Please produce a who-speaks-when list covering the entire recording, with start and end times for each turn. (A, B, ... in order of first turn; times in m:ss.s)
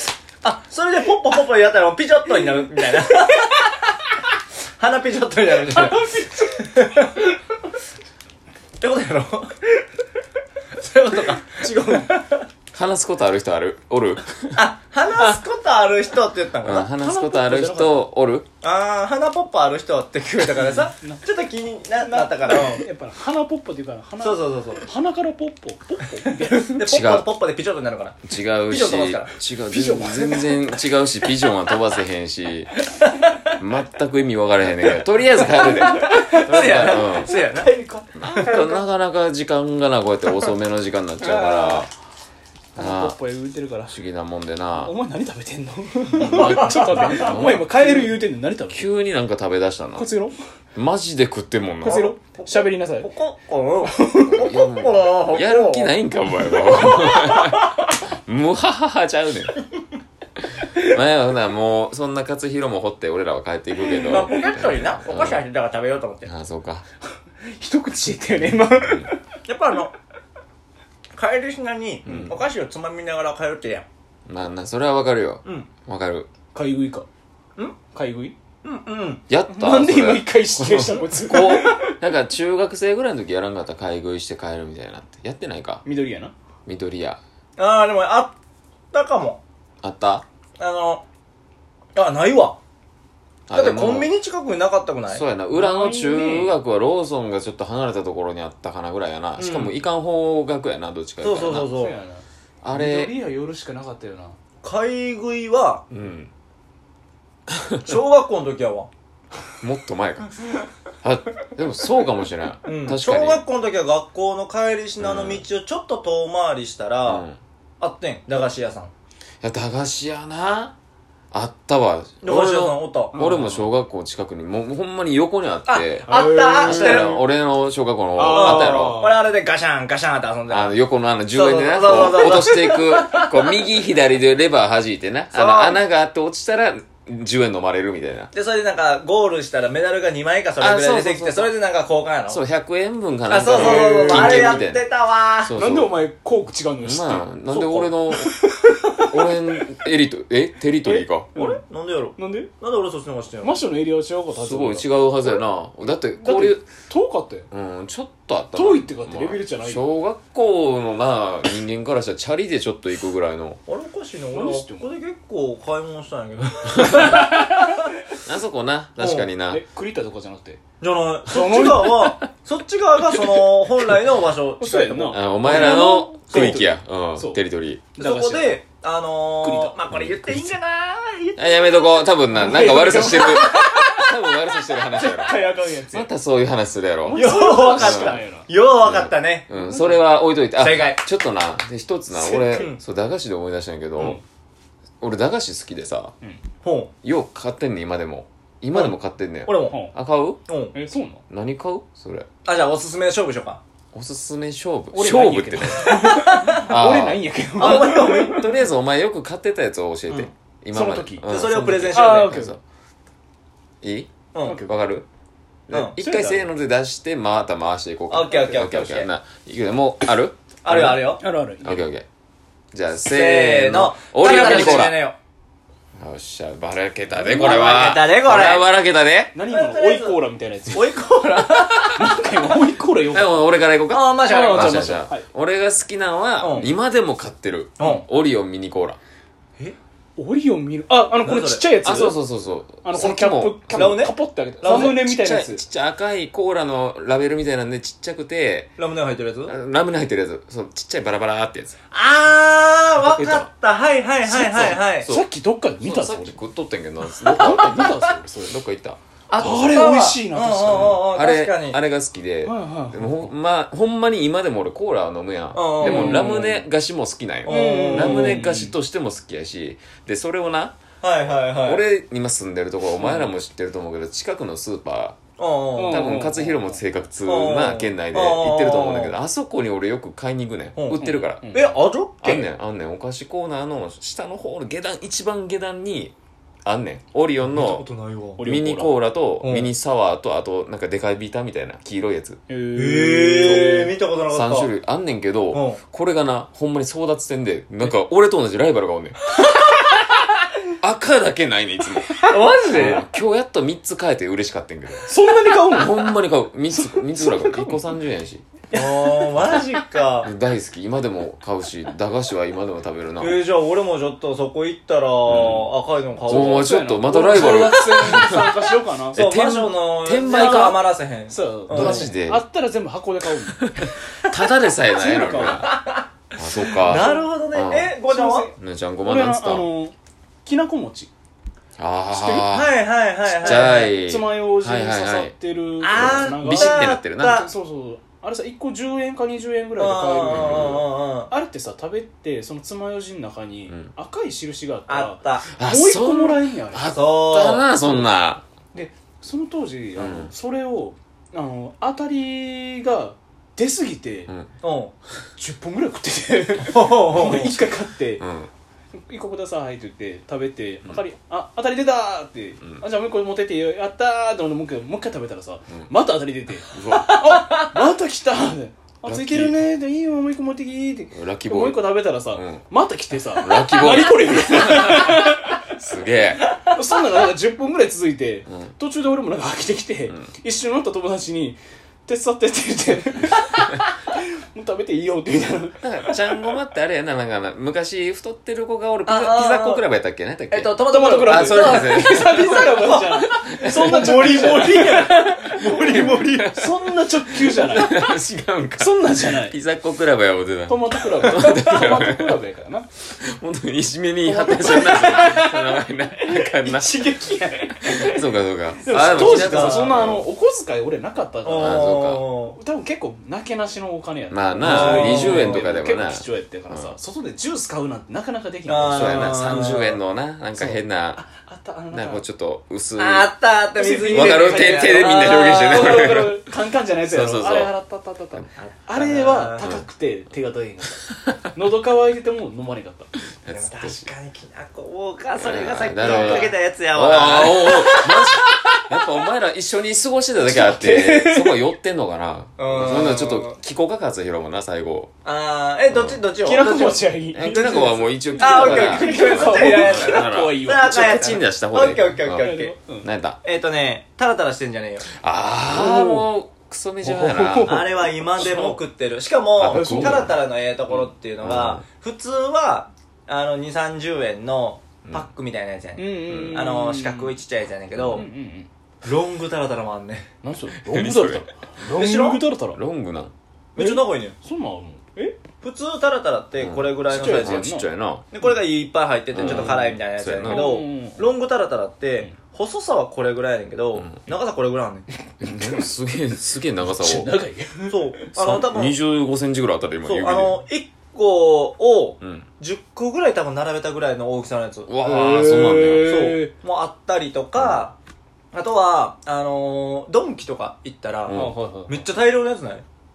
0:00.4-0:04.0 A
0:04.8-0:07.2 A
0:05.7-0:06.7 B
0:08.8-0:09.9 A
0:10.8-0:12.5 A
0:11.6-0:12.1 B
0:12.7-0:14.6 C
0:14.5-0:16.9 A
0:16.6-0:18.5 C
0:16.8-0:18.1 B
0:18.6-0:22.9 A
0:20.5-0:21.2 B
0:22.0-0:26.8 B
0:24.2-0:24.8 A
0:26.5-0:29.3 A
0:26.8-0:27.3 C
0:28.2-0:32.7 C
0:29.7-0:30.7 B
0:33.0-0:33.3 A
0:33.6-0:37.3 C
0:35.4-0:38.5 B
0:35.9-0:37.7 A
0:38.2-0:41.9 C
0:38.2-0:38.8 A
0:41.2-0:41.9 A
0:42.8-0:44.0 B
0:42.8-0:43.2 C
0:43.9-0:45.0 C
0:44.8-0:48.9 B
0:46.1-0:47.5 A
0:46.2-0:48.1 C
0:48.7-0:50.1 C
0:50.0-0:50.4 B
0:50.8-0:52.1 C
0:51.8-0:53.1 B
0:51.8-0:56.0 A
0:53.8-0:54.5 B
0:54.2-0:59.6 C
0:56.8-0:57.5 A
1:00.8-1:05.4 C
1:03.9-1:04.6 B
1:03.9-1:06.3 A
1:06.2-1:06.9 C
1:07.4-1:09.2 B
1:08.7-1:09.1 C
1:09.5-1:09.9 A
1:11.1-1:13.9 A
1:12.0-1:12.4 C
1:12.1-1:12.4 B
1:14.3-1:16.3 C
1:15.4-1:15.7 A
1:16.5-1:17.1 B
1:17.9-1:18.4 B
1:18.6-1:19.2 A
1:19.3-1:25.8 C
1:19.5-1:22.0 B
1:25.8-1:26.3 B
1:26.7-1:27.2 C
1:27.6-1:28.4 A
1:28.9-1:29.4 A
1:29.8-1:30.2 C
1:30.6-1:31.0 A
1:32.0-1:32.6 A
1:33.5-1:34.1 C
1:33.5-1:35.2 A
1:35.1-1:41.7 C
1:35.5-1:36.6 B
1:39.4-1:39.8 A
1:41.2-1:42.0 A
1:41.5-1:44.4 B
1:42.6-1:43.2 C
1:44.6-1:45.8 A
1:45.9-1:46.3 C
1:47.5-1:47.8 C
1:47.8-1:48.9 A
1:49.6-1:50.3 C
1:51.0-1:53.4 C
1:52.6-1:57.3 A
1:55.0-1:55.4 C
1:57.1-1:57.4 C
1:57.8-1:58.9 A
1:59.4-2:00.8 C
2:01.3-2:09.0 C
2:02.2-2:03.2 A
2:03.1-2:03.7 B
2:05.7-2:07.2 A
2:06.1-2:07.2 B
2:08.2-2:09.2 B
2:08.3-2:10.8 A
2:10.5-2:18.3 C
2:11.3-2:13.6 A
2:15.3-2:15.8 A
2:18.3-2:22.4 A
2:20.6-2:21.5 C
2:22.3-2:24.8 C
2:23.3-2:25.6 A
2:23.5-2:24.7 B
2:25.4-2:26.0 C
2:25.6-2:29.3 B
2:26.8-2:28.4 C
2:29.1-2:31.3 C
2:30.8-2:31.6 B
2:31.4-2:33.6 A
2:32.2-2:32.5 B
2:33.4-2:37.5 B
2:34.4-2:36.7 C
2:37.5-2:43.6 C
2:38.5-2:39.8 B
2:43.7-2:47.9 A
2:44.3-2:44.9 B
2:46.8-2:47.8 B
2:48.2-2:49.6 C
2:49.0-2:49.3 A
2:49.5-2:50.6 B
2:50.8-2:56.6 A
2:51.3-2:52.2 B
2:54.6-2:57.4 B
2:55.1-2:57.9 C
2:57.9-2:58.6 B
2:58.0-3:02.1 A
2:59.4-2:59.8 B
2:59.9-3:00.5 C
3:01.4-3:08.2 C
3:02.3-3:04.0 B
3:03.5-3:04.0 A
3:04.8-3:06.1 B
3:07.0-3:08.5 B
3:07.1-3:09.5 A
3:08.8-3:14.2 C
3:09.5-3:10.2 B
3:10.5-3:11.0 A
3:12.1-3:12.7 B
3:12.5-3:12.8 A
3:14.0-3:14.2 B
3:15.0-3:16.2 C
3:16.6-3:16.9 A
3:17.0-3:20.4 C
3:18.7-3:19.8 A
3:19.6-3:20.0 B
3:20.5-3:20.8 A
3:20.7-3:21.2 B
3:21.3-3:22.3 C
3:22.4-3:23.6 A
3:23.9-3:32.6 C
3:24.9-3:28.5 B
3:25.8-3:26.7 A
3:27.6-3:28.5 A
3:30.7-3:31.2 B
3:31.2-3:32.4 A
3:31.9-3:32.6 B
3:33.8-3:34.1 C
3:34.3-3:34.6 A
3:34.4-3:34.7 B
3:34.6-3:35.1 C
3:35.7-3:36.0 A
3:35.7-3:42.1 C
3:35.8-3:36.5 B
3:38.1-3:39.1 A
3:38.3-3:38.7 B
3:40.6-3:41.2 A
3:41.1-3:41.8 B
3:42.7-3:45.1 C
3:43.1-3:45.2 A
3:44.2-3:44.9 B
3:46.0-3:49.4 C
3:47.1-3:47.7 B
3:47.3-3:48.7 A
3:49.3-3:51.0 B
3:49.5-3:52.6 A
3:51.9-3:53.4 B
3:53.1-3:59.0 C
3:53.9-3:55.0 A
3:54.2-3:55.3 B
3:56.4-3:56.7 A
3:57.8-3:58.0 A
4:00.2-4:02.2 B
4:01.2-4:01.7 A
4:01.8-4:04.0 C
4:02.8-4:05.6 B
4:03.8-4:05.0 A
4:04.7-4:08.8 C
4:08.8-4:09.6 A
4:09.5-4:11.8 C
4:11.9-4:15.1 A
4:13.0-4:13.5 B
4:14.3-4:15.2 C
4:14.3-4:16.4 B
4:15.8-4:19.0 C
4:17.2-4:18.6 B
4:19.3-4:21.8 A
4:19.4-4:21.1 B
4:20.7-4:35.2 C
4:22.4-4:23.3 B
4:25.5-4:26.6 A
4:25.8-4:26.6 B
4:27.4-4:28.4 A
4:27.5-4:28.7 B
4:31.0-4:31.9 A
4:35.4-4:36.0 A
4:35.8-4:36.8 B
4:35.9-4:41.4 C
4:37.2-4:39.2 A
4:40.8-4:42.5 A
4:41.0-4:41.8 B
4:42.2-4:46.1 C
4:46.6-4:47.8 C
4:47.5-4:48.5 A
4:48.4-4:49.0 B
4:48.4-4:52.4 C
4:49.4-4:49.7 A
4:52.5-4:53.9 B
4:52.8-4:54.7 A
4:53.4-4:53.7 C
4:54.3-4:59.2 C
4:55.5-4:55.8 A
5:00.8-5:08.5 C
5:02.2-5:03.0 A
5:05.0-5:06.2 B
5:06.8-5:07.8 B
5:08.7-5:09.7 B
5:08.7-5:10.3 A
5:10.2-5:13.4 C
5:13.2-5:16.7 A
5:15.3-5:20.8 C
5:16.3-5:19.3 B
5:19.2-5:22.0 A
5:20.3-5:20.8 B
5:21.3-5:23.7 B
5:21.7-5:22.4 C
5:23.8-5:25.7 C
5:24.9-5:25.7 B
5:25.4-5:26.1 A
5:26.4-5:28.0 C
5:26.8-5:27.3 B
5:26.8-5:28.5 A
5:28.1-5:29.9 B
5:28.6-5:29.7 C
5:30.4-5:31.1 B
5:31.8-5:32.7 C
5:32.1-5:32.5 B
5:32.5-5:34.0 A
5:33.3-5:35.4 C
5:33.4-5:47.0 B
5:35.8-5:37.5 A
5:35.9-5:37.5 C
5:39.8-5:41.3 A
5:40.2-5:40.8 C
5:44.9-5:45.5 A
5:45.6-5:48.5 C
5:46.9-5:47.7 A
5:47.8-5:48.1 B
5:48.7-5:54.3 B
5:50.0-5:50.3 C
5:54.6-5:54.9 A
5:55.4-5:58.2 B
5:56.6-5:57.6 A
5:58.2-5:58.5 C
5:59.0-6:15.6 B
6:06.7-6:07.2 C
6:09.0-6:09.6 C
6:11.1-6:12.6 C
6:13.4-6:15.2 C
6:15.8-6:16.4 C
6:16.6-6:23.7 B
6:24.5-6:25.8 B
6:25.8-6:32.6 C
6:29.0-6:29.8 A
6:30.5-6:36.6 A
6:30.8-6:38.1 B
6:33.2-6:34.0 C
6:36.0-6:42.4 C
6:38.8-6:39.6 B
6:40.7-6:43.0 B
6:43.1-6:47.2 C
6:44.2-6:48.2 B
6:47.8-6:50.3 C
6:48.8-6:51.8 B
6:49.0-6:50.0 A
6:51.4-6:52.6 A
6:51.6-6:52.2 C
6:52.5-6:59.6 B
6:54.3-6:57.0 C
6:54.6-6:55.7 A
6:58.7-7:00.0 A
6:58.9-7:01.2 C
7:00.6-7:02.2 B
7:01.9-7:03.3 C
7:03.0-7:06.1 A
7:03.8-7:13.2 B
7:04.1-7:06.4 C
7:07.0-7:07.7 C
7:08.6-7:09.8 A
7:13.4-7:14.1 C
7:13.5-7:18.3 A
7:15.4-7:25.1 C
7:16.0-7:16.4 B
7:20.5-7:21.6 B
7:22.6-7:23.6 A
7:25.2-7:27.1 A
7:25.9-7:26.2 C
7:26.4-7:31.0 B
7:27.3-7:32.5 C
7:28.4-7:32.8 A
7:32.0-7:33.1 B
7:33.0-7:33.4 C
7:33.4-7:35.1 A
7:35.2-7:38.5 C
7:35.7-7:36.3 B
7:37.0-7:38.8 B
7:37.7-7:48.3 A
7:39.6-7:40.3 C
7:39.7-7:40.4 B
7:40.9-7:41.8 C
7:46.0-7:47.4 B
7:46.3-7:46.6 C
7:48.1-7:48.7 B
7:49.0-7:50.3 A
7:50.4-7:52.8 B
7:50.9-7:51.5 C
7:51.9-7:52.4 A
7:52.7-7:53.3 C
7:53.8-7:54.4 A
7:53.8-7:55.4 B
7:55.6-7:57.7 A
7:56.6-7:58.3 C
7:57.1-7:57.9 B
7:58.3-8:05.1 A
7:59.3-8:00.7 C
7:59.4-7:59.8 B
8:00.4-8:01.4 B
8:05.4-8:07.4 C
8:05.4-8:05.8 B
8:06.8-8:08.4 B
8:07.9-8:09.0 A
8:08.4-8:10.6 C
8:10.0-8:14.9 A
8:12.2-8:12.5 C
8:14.9-8:16.1 C
8:15.0-8:16.5 B
8:16.0-8:18.0 A
8:17.6-8:17.8 C
8:18.5-8:22.8 A
8:21.3-8:21.6 C
8:21.3-8:22.0 B